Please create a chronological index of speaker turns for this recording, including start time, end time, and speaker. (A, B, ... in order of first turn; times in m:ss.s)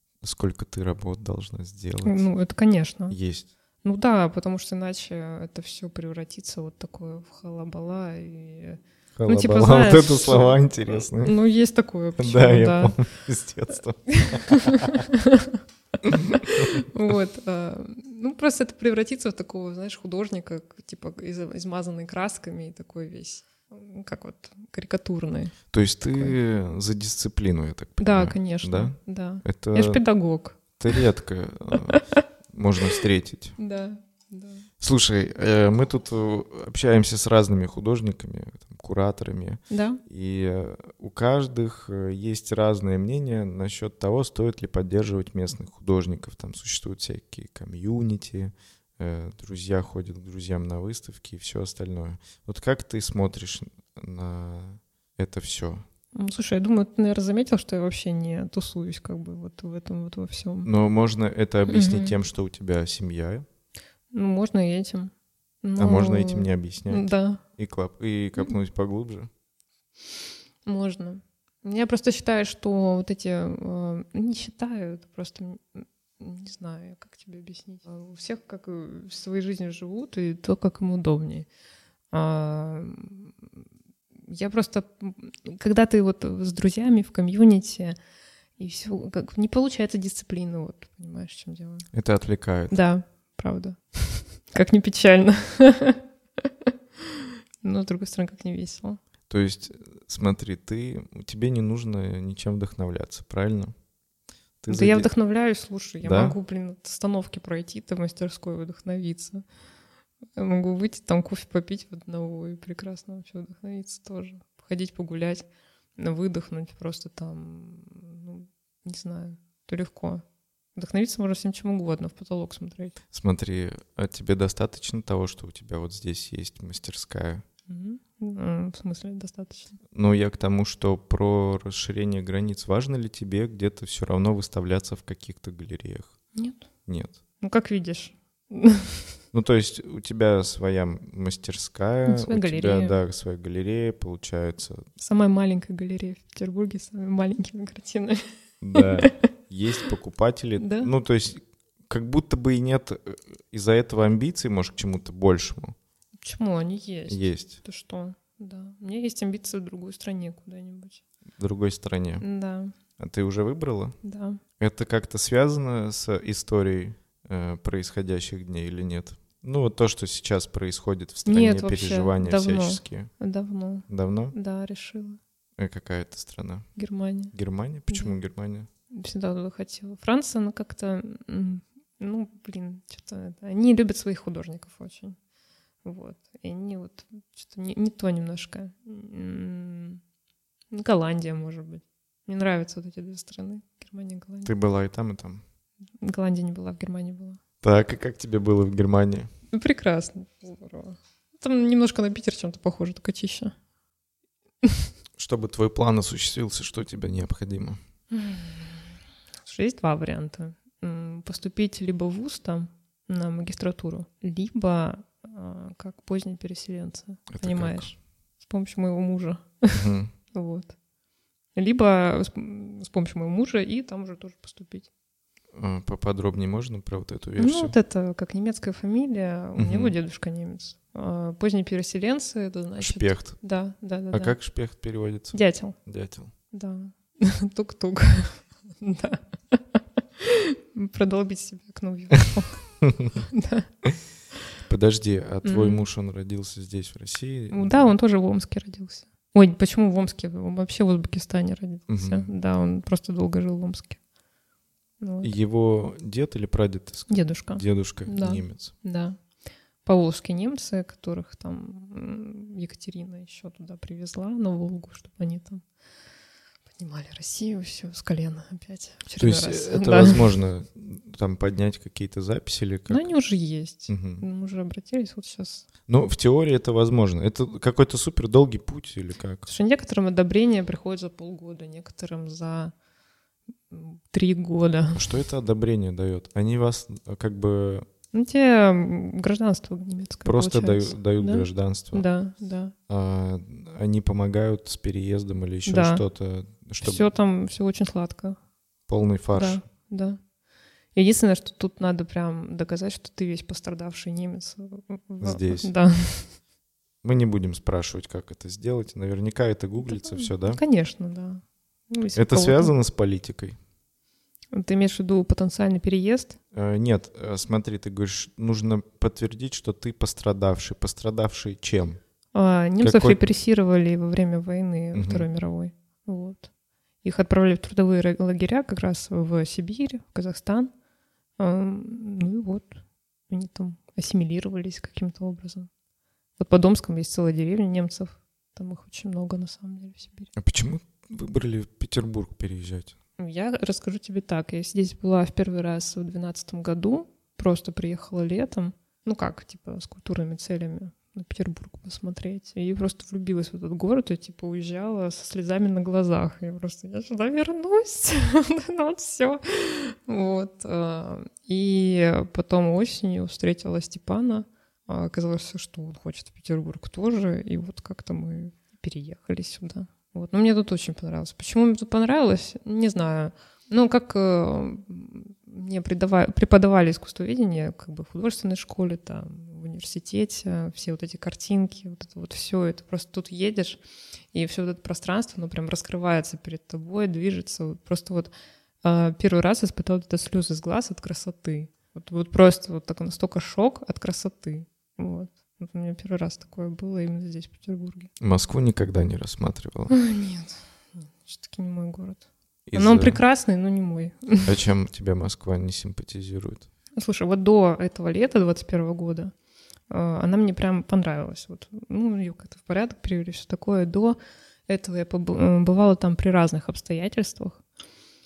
0:00.2-0:02.2 A
0:02.0-0:03.2 B
0:03.1-0:03.5 A
0:03.8-0:13.0 B
0:09.2-0:11.4 A
0:12.2-0:15.1 A
0:14.1-0:25.6 B
0:16.0-0:16.8 A
0:25.7-0:30.0 A
0:28.0-0:30.6 B
0:30.8-0:33.6 A
0:31.9-0:32.2 B
0:33.6-0:34.7 B
0:34.8-0:55.8 A
0:39.7-0:40.0 B
0:56.2-1:00.7 B
1:00.6-1:03.4 A
1:01.7-1:02.2 B
1:04.1-1:05.1 B
1:05.6-1:07.4 B
1:05.8-1:09.3 A
1:10.7-1:21.5 B
1:22.1-1:23.3 B
1:24.3-1:28.0 B
1:28.6-1:31.9 B
1:31.9-1:32.8 A
1:32.7-1:36.5 B
1:37.1-1:39.0 B
1:39.3-1:43.7 A
1:44.6-1:45.1 A
1:44.7-1:49.4 B
1:46.0-1:46.4 A
1:50.4-1:55.5 B
1:56.0-2:00.2 B
2:00.8-2:03.0 B
2:03.1-2:07.4 A
2:07.7-2:09.8 B
2:09.9-2:16.1 A
2:16.4-2:16.7 B
2:16.9-2:17.2 A
2:17.4-2:19.2 B
2:19.3-2:24.8 A
2:22.1-2:23.0 B
2:25.0-2:29.3 B
2:28.6-2:35.8 A
2:30.6-2:30.9 B
2:36.2-2:41.0 B
2:37.1-2:37.6 A
2:41.4-2:42.2 A
2:42.2-2:42.8 B
2:43.0-2:44.0 A
2:44.0-2:44.4 B
2:44.6-2:53.1 A
2:51.3-2:55.2 B
2:53.9-2:54.4 A
2:55.6-2:56.7 A
2:56.8-2:57.3 B
2:57.3-2:58.7 A
2:57.9-2:58.2 B
2:58.9-3:05.2 B
3:05.8-3:10.0 B
3:10.7-3:14.5 B
3:14.5-3:15.4 A
3:16.0-3:17.4 B
3:17.6-3:19.3 A
3:19.5-3:23.5 B
3:25.2-3:27.8 A
3:28.1-3:28.8 B
3:29.4-3:40.8 B
3:37.3-3:37.9 A
3:39.7-3:40.1 A
3:41.6-3:44.9 B
3:45.6-3:47.8 A
3:47.4-3:54.4 B
3:49.6-3:50.0 A
3:52.8-3:53.4 A
3:54.1-3:56.3 A
3:55.3-3:55.8 B
3:56.5-4:03.7 B
4:02.8-4:03.1 A
4:04.7-4:07.9 A
4:05.4-4:05.8 B
4:07.5-4:14.0 B
4:11.9-4:12.3 A
4:15.0-4:15.3 B
4:15.2-4:18.7 A
4:17.1-4:19.2 B
4:19.8-4:25.6 B
4:26.8-4:30.3 B
4:29.2-4:33.1 A
4:32.9-4:35.6 B
4:33.9-4:34.2 A
4:35.9-4:39.5 A
4:39.5-4:42.7 B
4:43.7-4:45.2 B
4:45.0-4:47.9 A
4:48.1-4:52.8 B
4:50.2-4:52.0 A
4:52.9-4:57.0 A
4:55.7-4:56.0 B
4:56.8-4:58.4 B
4:58.9-4:59.6 A
4:59.3-5:00.2 B
5:01.0-5:06.3 B
5:05.2-5:05.7 A
5:07.0-5:10.6 A
5:09.8-5:12.7 B
5:12.2-5:13.6 A
5:14.5-5:16.4 B
5:16.5-5:22.0 A
5:22.3-5:26.5 B
5:22.8-5:23.2 A
5:24.9-5:25.3 A
5:27.0-5:30.7 B
5:31.4-5:35.7 B
5:36.4-5:40.3 B
5:40.4-5:43.0 A
5:43.2-6:23.8 B
6:24.3-6:28.3 B
6:28.8-6:38.1 B
6:38.2-6:40.0 A
6:39.9-6:44.5 B
6:42.7-6:43.2 A
6:44.5-6:46.7 A
6:47.0-6:49.3 B
6:49.9-6:57.6 B